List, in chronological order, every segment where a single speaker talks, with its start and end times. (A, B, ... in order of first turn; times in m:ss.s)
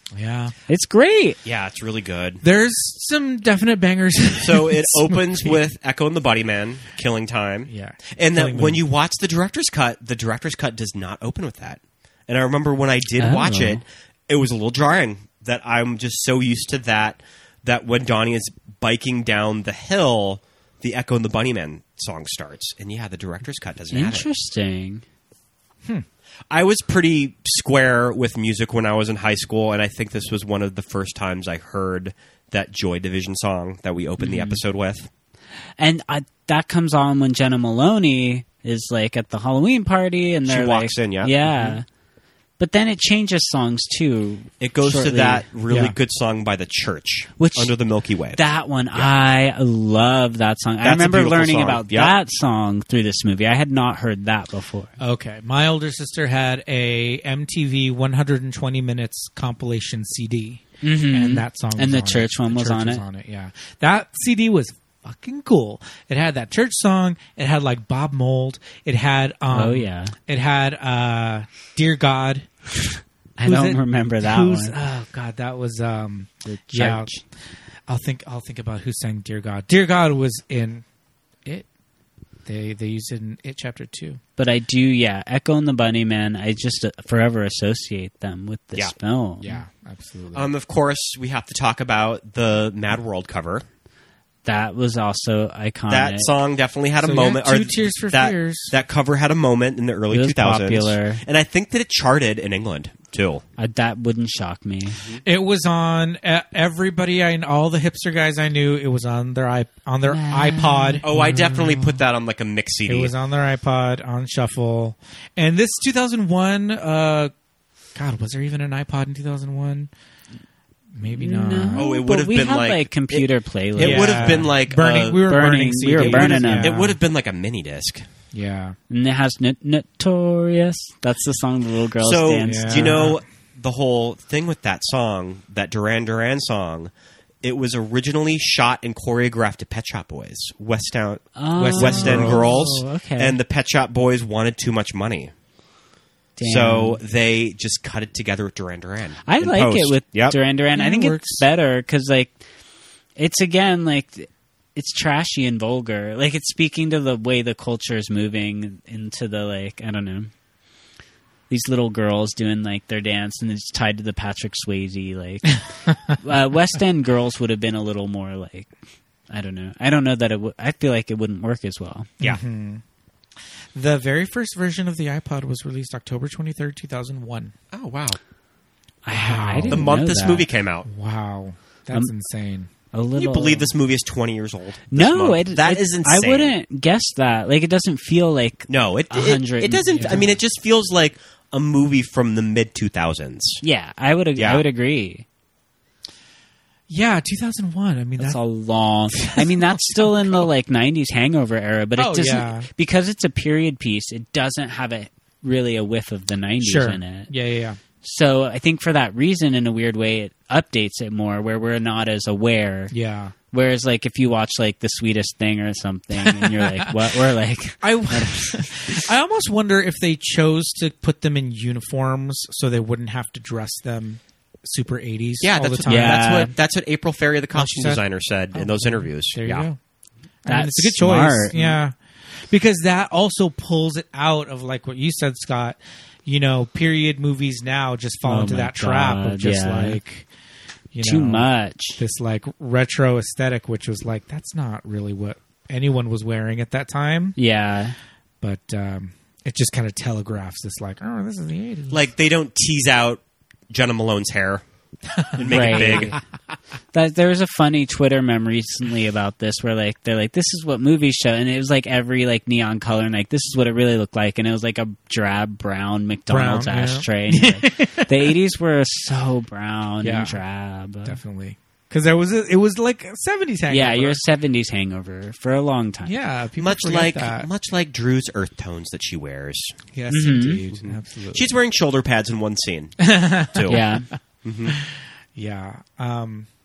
0:00.1-0:00.5 A
0:00.7-0:01.4 B
0:01.4-0:02.4 C
0:02.4-0:05.6 A
0:04.4-0:24.3 C
0:07.7-0:08.8 A
0:13.2-0:13.8 B
0:23.9-0:25.0 B
0:26.5-0:35.1 C
0:34.2-0:34.6 B
0:35.8-0:41.8 B
0:40.5-0:41.5 C
0:42.6-0:45.4 B
0:44.6-0:48.4 C
0:45.7-0:45.9 A
0:47.4-0:47.7 B
0:48.3-0:54.9 B
0:50.8-0:52.1 C
0:55.0-1:12.5 A
1:00.8-1:03.0 B
1:09.5-1:10.1 B
1:13.4-1:14.8 B
1:13.4-1:17.2 A
1:16.4-1:17.2 B
1:17.9-1:20.8 A
1:22.4-1:24.2 A
1:24.4-1:29.6 B
1:29.4-1:30.5 A
1:30.3-1:33.6 C
1:34.4-1:36.3 B
1:35.9-1:43.4 C
1:37.0-1:38.7 A
1:40.1-1:41.2 B
1:43.6-1:45.0 B
1:45.2-1:52.0 A
1:50.1-1:51.0 B
1:51.0-1:53.1 C
1:52.9-1:57.3 A
1:57.9-1:59.9 A
2:01.0-2:01.9 A
2:01.1-2:04.5 B
2:01.8-2:05.3 C
2:03.8-2:07.0 A
2:05.2-2:06.7 B
2:06.0-2:08.0 C
2:08.3-2:08.8 A
2:08.9-2:13.0 B
2:12.0-2:16.9 C
2:12.4-2:13.2 A
2:17.4-2:25.3 C
2:21.4-2:23.4 B
2:21.6-2:22.7 A
2:26.4-2:27.0 B
2:26.4-2:30.4 C
2:29.2-2:32.4 B
2:30.7-2:31.4 A
2:33.2-2:40.3 B
2:41.5-2:48.7 B
2:49.3-2:52.1 B
2:52.2-2:52.8 A
2:53.7-2:57.5 A
2:57.7-2:58.2 C
2:59.0-3:00.5 B
2:59.1-2:59.9 A
2:59.7-3:00.9 C
3:00.8-3:02.7 A
3:02.9-3:03.7 B
3:03.2-3:06.5 C
3:04.9-3:10.3 B
3:08.7-3:13.6 C
3:09.9-3:10.3 A
3:13.6-3:15.2 B
3:14.4-3:14.6 C
3:16.9-3:18.4 A
3:18.2-3:27.3 B
3:19.1-3:20.5 A
3:22.0-3:22.7 A
3:26.6-3:27.8 A
3:28.0-3:32.9 B
3:32.9-3:33.3 A
3:33.5-3:39.0 B
3:36.2-3:36.9 A
3:37.8-3:46.5 A
3:45.4-3:49.7 C
3:45.8-3:46.5 B
3:47.5-3:49.8 A
3:50.4-3:51.9 A
3:50.5-3:51.8 B
3:52.5-4:00.3 A
3:58.2-4:00.0 B
4:00.9-4:07.4 A
4:01.0-4:02.0 B
4:07.4-4:08.0 B
4:08.4-4:12.0 A
4:11.9-4:14.6 C
4:15.2-4:16.2 A
4:15.3-4:16.2 C
4:15.5-4:16.2 B
4:16.9-4:31.2 B
4:26.3-4:28.3 A
4:30.0-4:30.4 A
4:31.0-4:34.2 A
4:33.7-4:36.2 B
4:36.0-4:37.5 A
4:36.6-4:39.8 C
4:39.9-4:41.5 A
4:40.1-4:40.6 B
4:40.8-4:43.8 C
4:43.0-4:43.9 A
4:43.7-4:44.1 B
4:44.4-4:44.8 C
4:44.7-4:46.5 A